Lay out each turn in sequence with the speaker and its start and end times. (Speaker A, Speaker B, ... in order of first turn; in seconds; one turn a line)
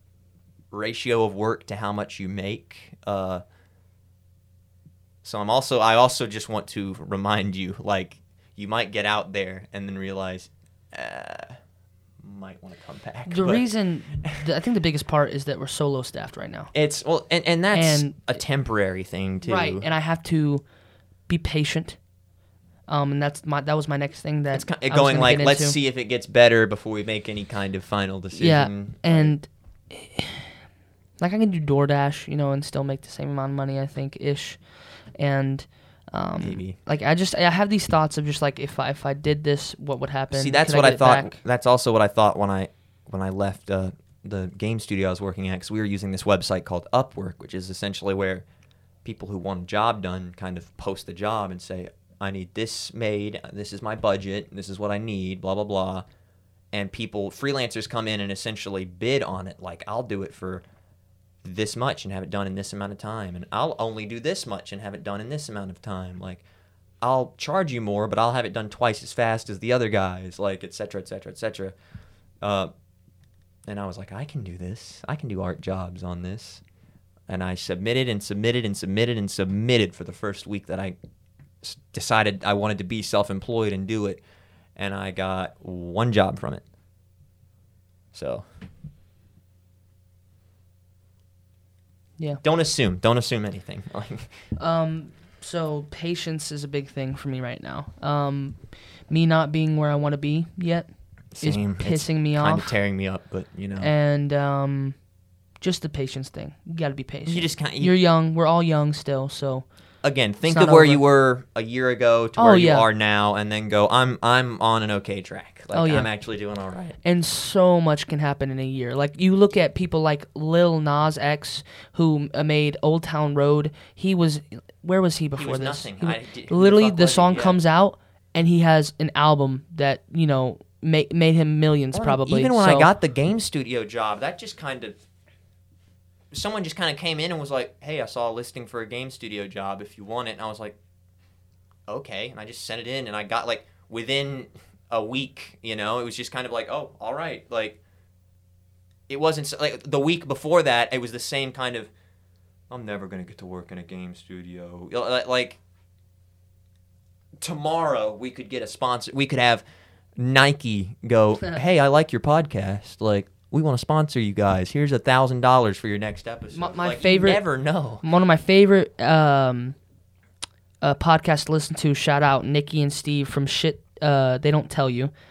Speaker A: 0.7-3.4
Speaker A: 5.2-11.6
Speaker A: 12.2-14.4
Speaker B: 13.3-16.7
Speaker A: 16.7-19.9
Speaker B: 17.7-18.4
Speaker B: 19.4-20.7
Speaker B: 21.3-22.0
Speaker B: 22.9-25.8
Speaker A: 24.5-29.3
Speaker B: 28.4-30.5
Speaker B: 31.2-41.3
Speaker A: 36.4-36.8
Speaker A: 40.3-48.5
Speaker A: 49.0-56.0
Speaker A: 56.7-60.6
Speaker A: 61.4-66.4
Speaker A: 67.0-71.7
Speaker A: 72.4-72.7
Speaker A: 73.7-76.6
Speaker A: 77.3-81.0
Speaker A: 81.6-84.2
Speaker A: 84.8-86.6
Speaker A: 88.1-88.4
Speaker A: 92.4-94.3
Speaker B: 94.6-102.8
Speaker A: 101.3-103.9
Speaker B: 103.8-105.1
Speaker B: 105.6-109.9
Speaker A: 107.3-108.0
Speaker A: 110.0-117.0
Speaker B: 110.5-111.0
Speaker B: 112.4-112.8
Speaker B: 115.7-116.1
Speaker B: 117.0-132.9
Speaker A: 125.4-127.6
Speaker A: 131.9-134.9
Speaker A: 136.3-140.8
Speaker A: 141.9-147.8
Speaker A: 149.1-151.9
Speaker A: 152.7-155.6
Speaker A: 157.4-159.6
Speaker A: 160.2-168.1
Speaker B: 166.5-169.8
Speaker B: 170.8-175.1